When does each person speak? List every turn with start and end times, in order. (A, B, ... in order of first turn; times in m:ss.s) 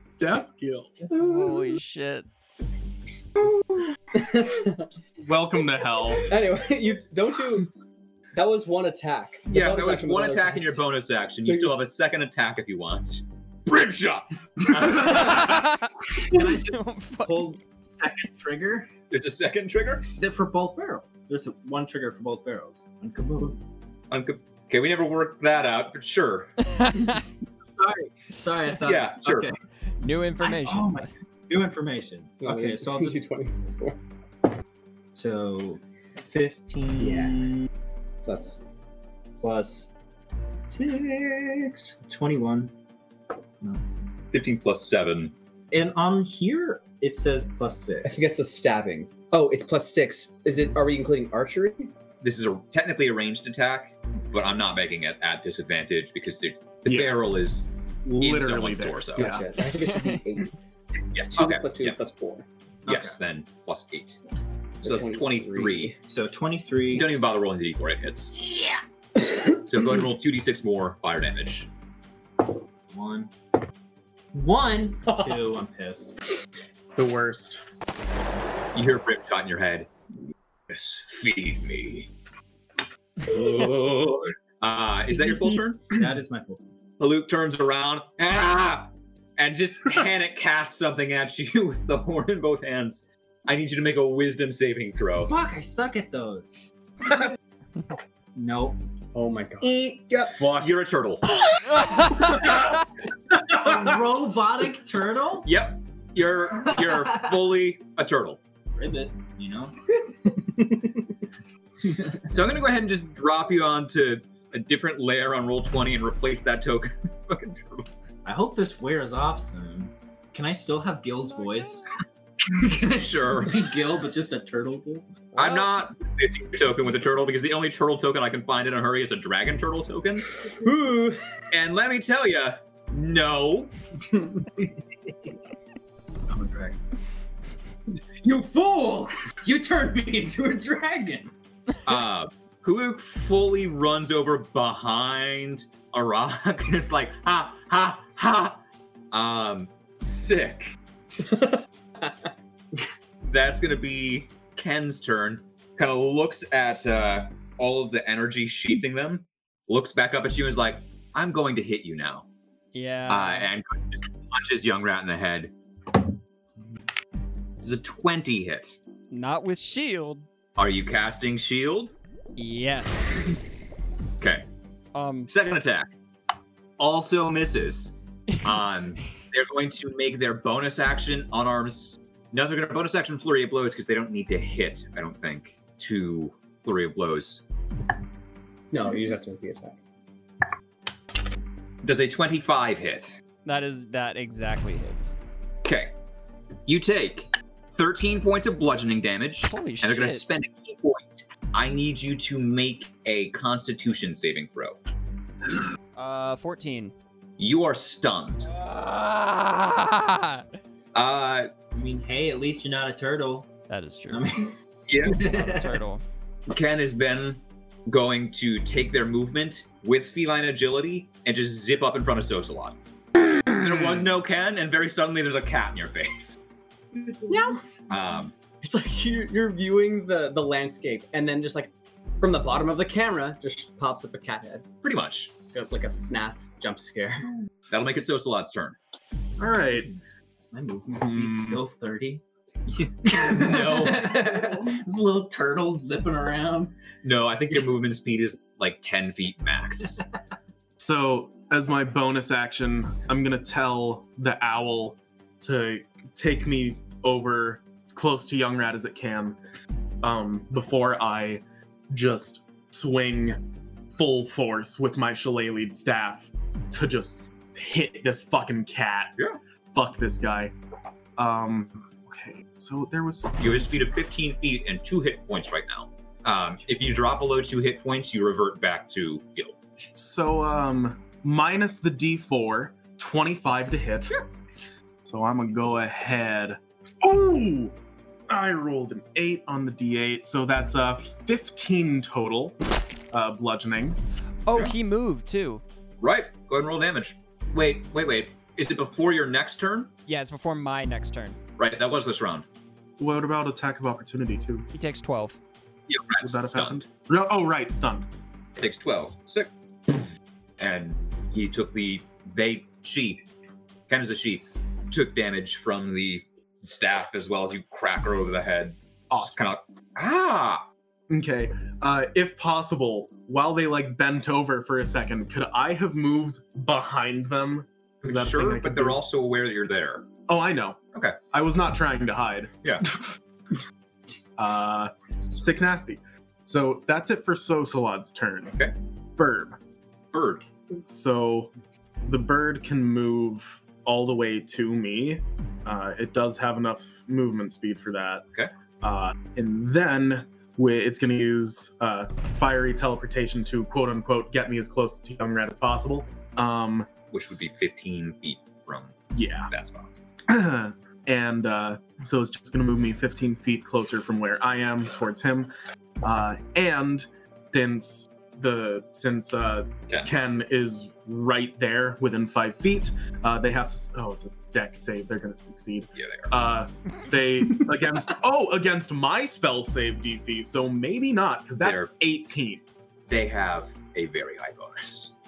0:00.2-0:01.0 A
0:01.1-0:02.3 B
0:01.3-0:01.6 C
0:04.1-0:04.9 C
0:05.2-0:06.3 A
0:06.2-0:07.7 C
0:08.3-0:10.8 C
0:09.5-0:15.7 D
0:11.4-0:11.7 C
0:14.9-0:15.6 E
0:15.2-0:17.6 B
0:16.2-0:18.9 E
0:19.1-0:20.1 D
0:20.2-0:23.6 E
0:24.1-0:26.5 D
0:26.6-0:27.2 B
0:27.8-0:29.6 E
0:28.8-0:29.5 D
0:30.0-0:31.1 B
0:30.4-0:33.2 E
0:32.4-0:34.0 C
0:35.1-0:37.7 E
0:38.2-0:38.6 E
0:39.4-0:39.9 E
0:40.7-0:42.7 E
0:44.3-0:45.3 D
0:45.7-0:48.3 E
0:48.0-0:51.9 C
0:52.2-0:59.4 D
0:56.8-0:57.2 A
0:58.0-0:59.6 A
0:59.2-1:00.5 C
0:59.7-1:00.2 B
1:01.1-1:02.0 D
1:01.2-1:02.4 C
1:02.8-1:04.2 D
1:02.9-1:03.1 E
1:04.8-1:05.9 D
1:04.8-1:06.0 C
1:06.0-1:07.2 E
1:06.9-1:08.6 D
1:09.6-1:11.7 D
1:12.9-1:13.3 E
1:14.3-1:16.1 E
1:16.9-1:17.6 A
1:18.7-1:19.9 D
1:20.7-1:22.1 D
1:23.2-1:26.0 D
1:25.9-1:26.7 E
1:27.0-1:35.3 D
1:35.2-1:37.2 E
1:38.3-1:38.8 E
1:39.1-1:39.7 C
1:39.6-1:40.8 A
1:40.6-1:41.5 D
1:41.9-1:42.2 B
1:42.1-1:42.6 A
1:43.4-1:45.5 E
1:43.5-1:43.8 A
1:45.4-1:48.4 D
1:46.7-1:47.2 E
1:48.7-1:50.6 E
1:51.8-1:52.3 E
1:52.2-1:57.9 D
1:58.2-2:01.9 E
2:02.5-2:05.1 E
2:02.7-2:03.7 D
2:05.4-2:10.4 D
2:10.6-2:11.2 C
2:11.5-2:13.7 D
2:14.4-2:15.3 E
2:16.3-2:16.8 E
2:18.2-2:21.3 E
2:21.8-2:28.6 D
2:29.1-2:30.7 D
2:33.2-2:42.2 D
2:42.7-2:43.5 B
2:43.1-2:45.5 D
2:47.6-2:48.8 D
2:49.1-2:50.2 B
2:50.6-2:51.9 D
2:52.4-2:53.4 B
2:54.2-2:54.4 D
2:54.9-2:55.3 B
2:55.3-2:55.9 D
2:56.8-3:07.4 D
3:08.7-3:09.8 C
3:11.8-3:13.2 D
3:13.4-3:15.2 B
3:15.6-3:15.9 D
3:16.6-3:24.8 D
3:19.5-3:20.2 B
3:26.0-3:26.9 B
3:27.4-3:28.5 D
3:28.4-3:30.5 B
3:30.9-3:31.5 D
3:31.7-3:33.5 E
3:33.7-3:34.3 B
3:34.1-3:35.8 E
3:34.9-3:35.3 D
3:35.1-3:36.0 B
3:36.5-3:42.8 D
3:43.4-3:46.4 D
3:47.3-3:47.6 C
3:47.9-3:48.3 D
3:48.6-3:54.6 C
3:54.8-3:55.3 D
3:55.5-3:57.3 C
3:57.7-3:58.8 D
3:59.3-4:06.7 E
3:59.4-3:59.9 A
4:00.9-4:01.6 A
4:03.0-4:04.3 D
4:07.0-4:10.0 D
4:10.8-4:19.4 A
4:20.0-4:23.4 A
4:23.9-4:29.1 A
4:29.7-4:30.5 A
4:31.2-4:33.7 A
4:33.4-4:39.6 D
4:39.9-4:44.2 A
4:45.0-4:47.7 A
4:48.3-4:52.6 A
4:53.1-4:54.0 A
4:54.4-4:55.6 B
4:56.0-4:59.9 D
5:00.1-5:01.4 B
5:01.6-5:02.4 D
5:03.0-5:04.6 A
5:04.7-5:05.4 B
5:05.9-5:06.8 D
5:06.2-5:08.1 A
5:08.6-5:10.1 D
5:10.6-5:13.2 D
5:13.9-5:20.6 D
5:19.1-5:19.5 A
5:21.1-5:29.0 A
5:28.0-5:30.1 D
5:30.3-5:30.8 A
5:31.3-5:33.1 A
5:34.4-5:38.6 A
5:39.2-5:39.6 A
5:40.1-5:40.5 D
5:40.7-5:41.5 A
5:42.0-5:48.2 A
5:48.8-5:57.4 A
5:57.1-5:59.0 D
5:59.1-5:59.5 A
5:59.5-5:59.9 D
6:00.3-6:05.5 A
6:06.0-6:22.6 A
6:16.0-6:16.3 D
6:21.6-6:21.9 D
6:23.1-6:25.1 D